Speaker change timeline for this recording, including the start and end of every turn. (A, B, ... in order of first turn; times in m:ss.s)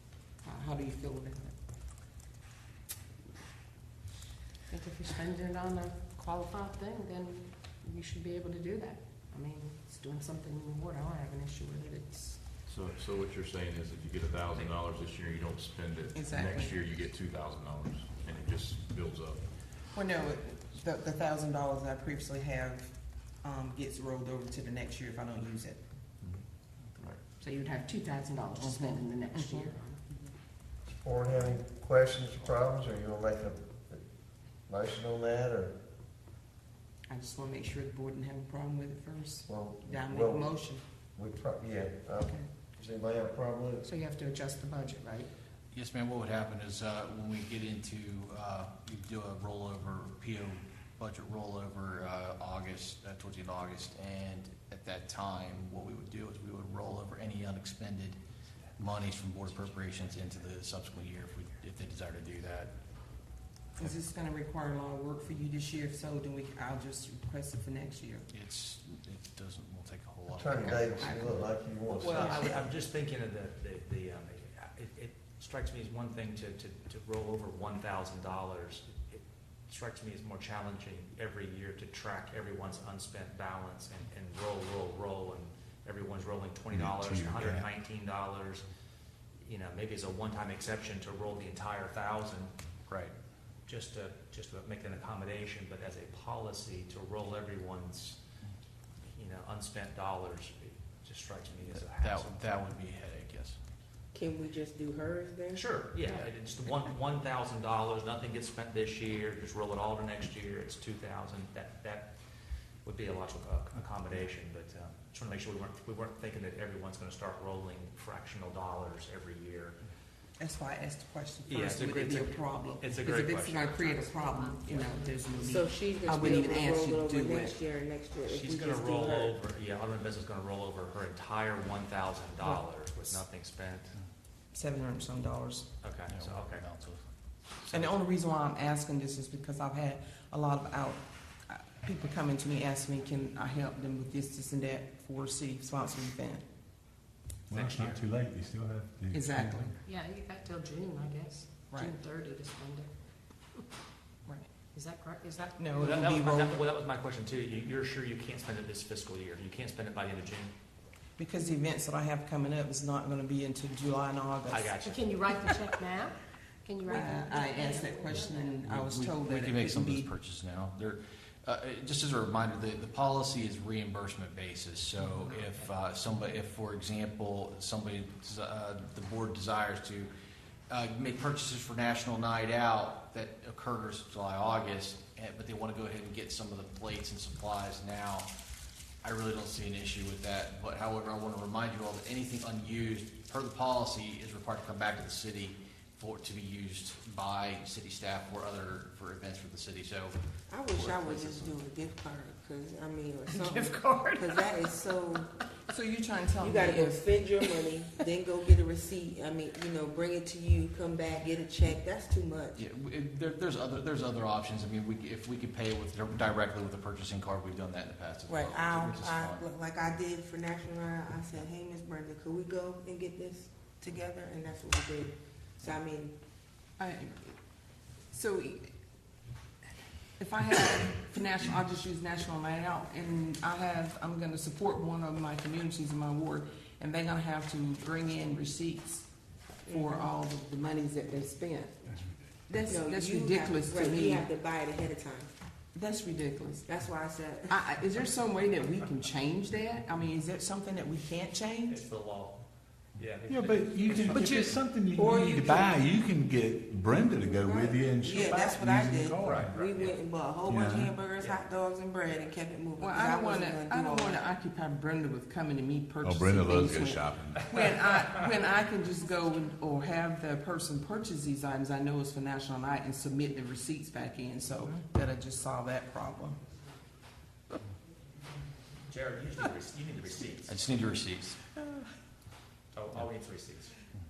0:00.4-0:01.6 A
0:04.7-0:12.4 B
0:12.7-0:19.5 C
0:16.1-0:16.7 A
0:19.9-0:25.8 A
0:27.4-0:30.0 B
0:28.6-0:29.7 A
0:30.8-0:34.0 D
0:34.7-0:35.7 D
0:37.1-0:40.8 A
0:39.5-0:40.5 D
0:41.2-0:43.9 D
0:43.8-0:45.3 B
0:45.7-0:58.2 E
0:58.8-1:02.7 E
1:03.8-1:08.3 A
1:08.3-1:11.2 E
1:10.3-1:12.5 D
1:11.0-1:11.4 A
1:12.0-1:28.6 F
1:12.0-1:12.5 A
1:26.7-1:27.6 G
1:29.4-1:32.5 F
1:32.9-1:33.1 E
1:33.7-1:38.2 F
1:39.1-1:42.3 F
1:41.7-1:43.6 E
1:44.1-1:45.6 H
1:45.5-1:52.1 F
1:52.8-1:59.8 F
2:00.4-2:07.6 A
2:01.5-2:03.8 F
2:03.8-2:05.7 B
2:05.4-2:09.4 H
2:08.2-2:13.9 F
2:14.5-2:15.7 A
2:15.8-2:16.6 F
2:16.1-2:17.0 E
2:17.6-2:17.9 E
2:17.7-2:26.4 A
2:27.5-2:29.7 G
2:27.5-2:28.0 F
2:29.1-2:29.8 A
2:29.8-2:32.9 B
2:31.7-2:32.0 A
2:34.7-2:35.8 B
2:35.6-2:36.6 A
2:35.8-2:40.5 F
2:41.2-2:44.8 A
2:44.5-2:45.4 F
2:44.8-2:48.6 B
2:46.8-2:50.1 A
2:48.6-3:00.1 E
3:00.7-3:08.3 E
3:09.0-3:21.5 E
3:20.5-3:25.3 H
3:23.3-3:24.4 B
3:25.7-3:27.2 A
3:26.4-3:32.6 H
3:32.6-3:39.4 E
3:38.3-3:46.2 H
3:46.8-3:47.4 A
3:48.1-3:48.7 A
3:50.2-3:59.1 A
3:59.6-4:00.1 H
3:59.6-4:01.8 A
4:02.5-4:04.3 A
4:02.7-4:05.3 H
4:05.7-4:06.6 A
4:06.6-4:07.5 H
4:07.5-4:11.8 A
4:11.7-4:12.4 F
4:13.0-4:14.6 F
4:13.3-4:19.5 G
4:14.9-4:15.8 H
4:17.1-4:24.2 H
4:19.2-4:20.0 F
4:20.4-4:20.9 G
4:22.8-4:36.4 A
4:26.0-4:27.4 G
4:38.9-4:40.5 F
4:40.4-4:41.4 E
4:42.7-4:43.8 F